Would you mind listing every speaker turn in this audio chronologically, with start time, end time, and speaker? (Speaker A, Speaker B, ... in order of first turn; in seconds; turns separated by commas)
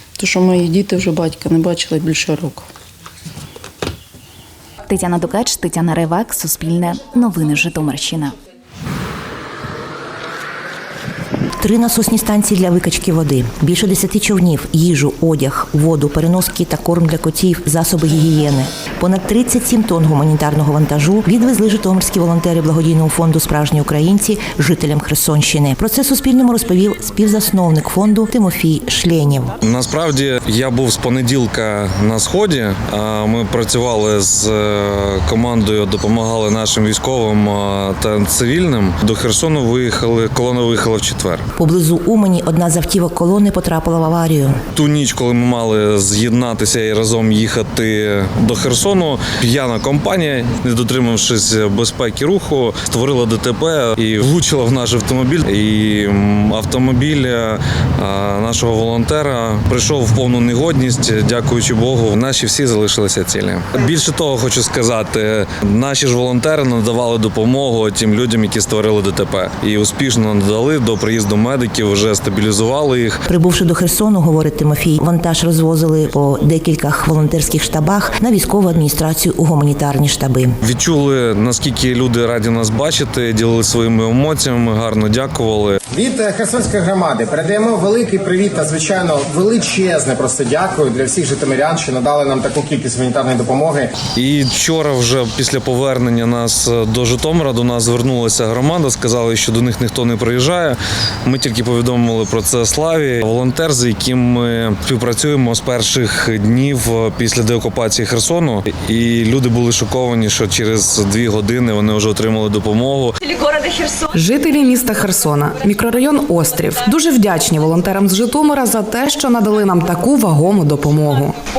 Speaker A: 0.2-2.7, Speaker B: 4.9-8.3, Speaker C: 11.6-29.6, Speaker D: 29.6-41.5, Speaker C: 41.6-44.6, Speaker D: 44.8-73.2, Speaker C: 73.3-80.5, Speaker D: 80.7-85.8, Speaker E: 85.9-93.9, Speaker D: 94.2-113.2, Speaker F: 114.2-121.3